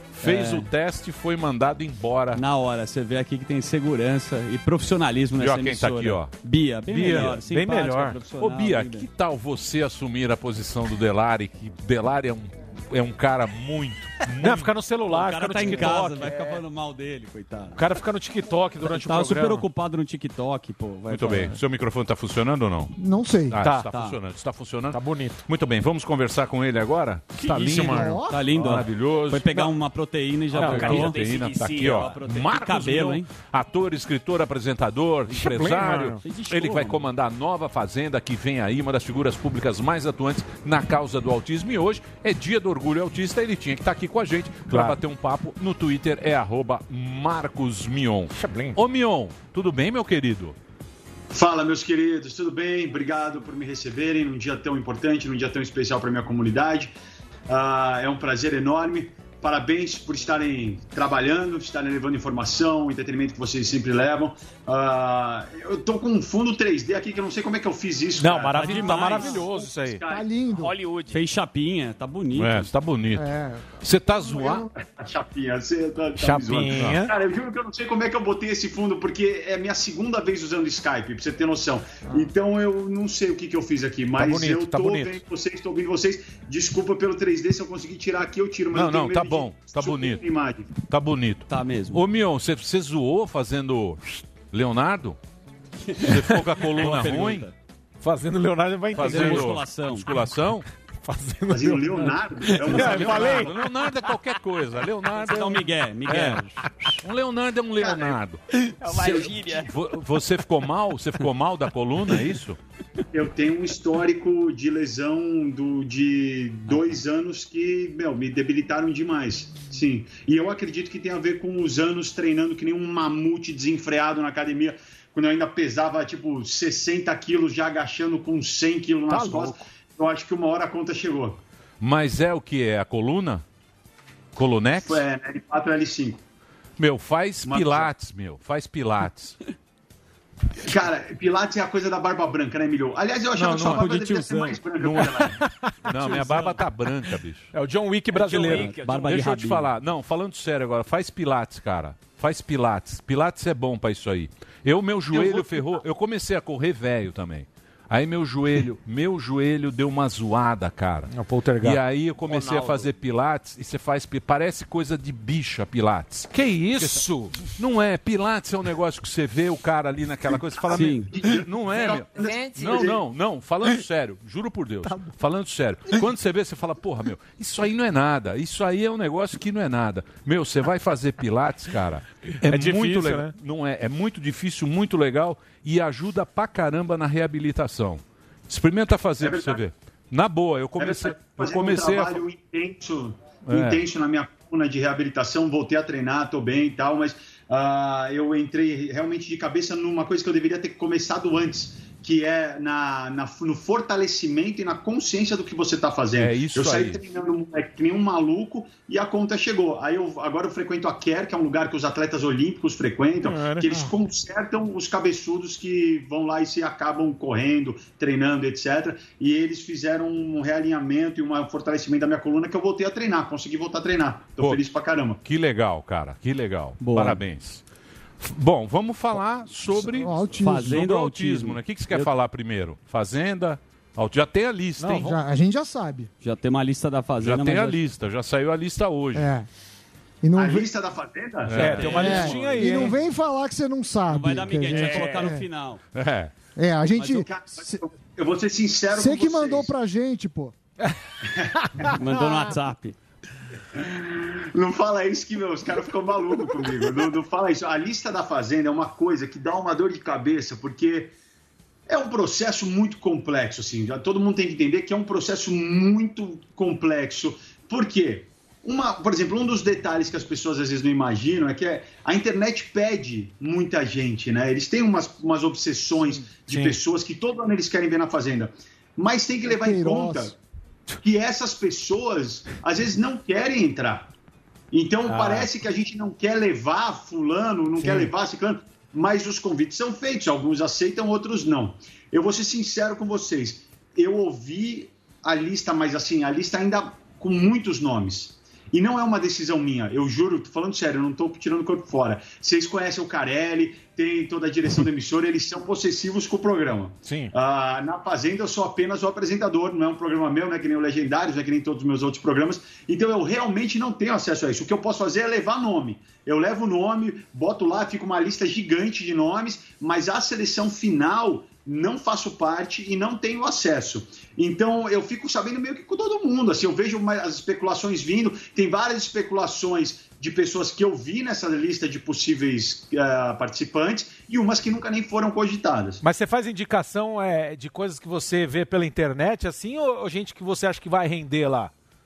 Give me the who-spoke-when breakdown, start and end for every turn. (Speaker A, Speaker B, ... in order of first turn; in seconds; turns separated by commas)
Speaker A: 0.1-2.4, Speaker B: 0.2-0.7, Speaker B: 2.3-9.1, Speaker A: 5.4-6.3, Speaker A: 6.9-7.4, Speaker C: 7.0-8.2, Speaker A: 8.4-14.7, Speaker C: 14.4-16.4, Speaker B: 15.1-17.8, Speaker D: 15.8-16.6, Speaker C: 17.8-19.6, Speaker B: 18.8-21.6, Speaker A: 21.1-22.9, Speaker E: 22.9-23.7, Speaker A: 23.5-29.7, Speaker B: 23.9-24.2, Speaker C: 24.9-25.4, Speaker C: 27.4-28.2, Speaker E: 27.8-28.5, Speaker B: 28.3-31.2, Speaker D: 30.5-32.1, Speaker C: 30.6-30.9, Speaker A: 30.6-50.5, Speaker B: 31.8-33.3, Speaker C: 35.3-36.2, Speaker B: 36.2-37.0, Speaker C: 44.7-45.0, Speaker C: 48.4-48.8, Speaker F: 51.3-56.9, Speaker F: 57.5-70.3, Speaker C: 68.2-70.0, Speaker B: 68.5-69.5, Speaker E: 69.2-69.4, Speaker E: 70.0-70.8, Speaker D: 70.5-71.2, Speaker B: 71.1-72.7, Speaker A: 72.3-74.7, Speaker E: 73.1-73.8, Speaker F: 74.1-90.8, Speaker A: 76.2-77.0, Speaker C: 76.3-77.1, Speaker E: 82.0-82.3, Speaker C: 84.2-85.2, Speaker A: 88.7-90.2, Speaker A: 90.7-95.2, Speaker B: 91.5-92.0, Speaker B: 95.8-97.5, Speaker A: 96.0-97.5, Speaker C: 98.0-99.5, Speaker A: 98.9-100.7, Speaker B: 99.0-100.1, Speaker C: 101.0-103.5, Speaker F: 101.5-103.6, Speaker A: 102.7-106.5, Speaker B: 105.2-106.6, Speaker A: 107.0-112.6, Speaker D: 107.8-108.2, Speaker D: 108.8-109.7, Speaker F: 113.1-131.4, Speaker C: 129.1-129.6, Speaker A: 131.8-133.4, Speaker A: 134.3-135.0, Speaker F: 134.8-136.2, Speaker A: 136.8-139.4, Speaker F: 137.4-137.9, Speaker F: 140.6-145.4, Speaker A: 143.3-144.1, Speaker B: 143.6-144.6, Speaker A: 144.8-145.3, Speaker C: 145.4-146.5, Speaker A: 145.8-147.5, Speaker C: 147.5-148.7, Speaker D: 148.1-149.2, Speaker B: 148.5-149.7, Speaker A: 149.0-192.2, Speaker C: 161.1-161.8, Speaker D: 162.2-162.9, Speaker C: 166.3-167.4, Speaker B: 170.7-171.1, Speaker F: 171.1-173.0, Speaker D: 171.9-172.8, Speaker C: 182.4-183.3, Speaker F: 189.2-189.6, Speaker F: 190.8-225.2, Speaker A: 193.5-193.8, Speaker A: 206.2-207.0, Speaker C: 213.2-213.6, Speaker E: 213.7-213.9, Speaker A: 225.2-227.6, Speaker B: 226.8-227.2, Speaker A: 228.2-235.1, Speaker E: 229.7-230.8, Speaker B: 230.3-232.1, Speaker C: 234.8-235.1, Speaker E: 234.9-236.1, Speaker B: 236.2-237.8, Speaker A: 237.2-239.3, Speaker E: 239.1-239.5, Speaker E: 240.2-240.7, Speaker F: 240.3-242.4, Speaker A: 241.4-242.8, Speaker C: 241.6-242.9, Speaker E: 241.9-245.4, Speaker B: 244.1-245.8, Speaker A: 245.9-246.3, Speaker E: 246.6-247.8, Speaker F: 247.0-249.7, Speaker E: 248.9-250.5, Speaker F: 251.2-251.5, Speaker B: 251.9-252.9, Speaker F: 253.8-261.1, Speaker F: 261.9-280.3, Speaker E: 276.0-276.4, Speaker E: 279.4-280.3, Speaker F: 281.0-284.1, Speaker F: 284.7-336.0, Speaker C: 285.1-285.4, Speaker C: 307.0-307.3, Speaker C: 336.0-341.7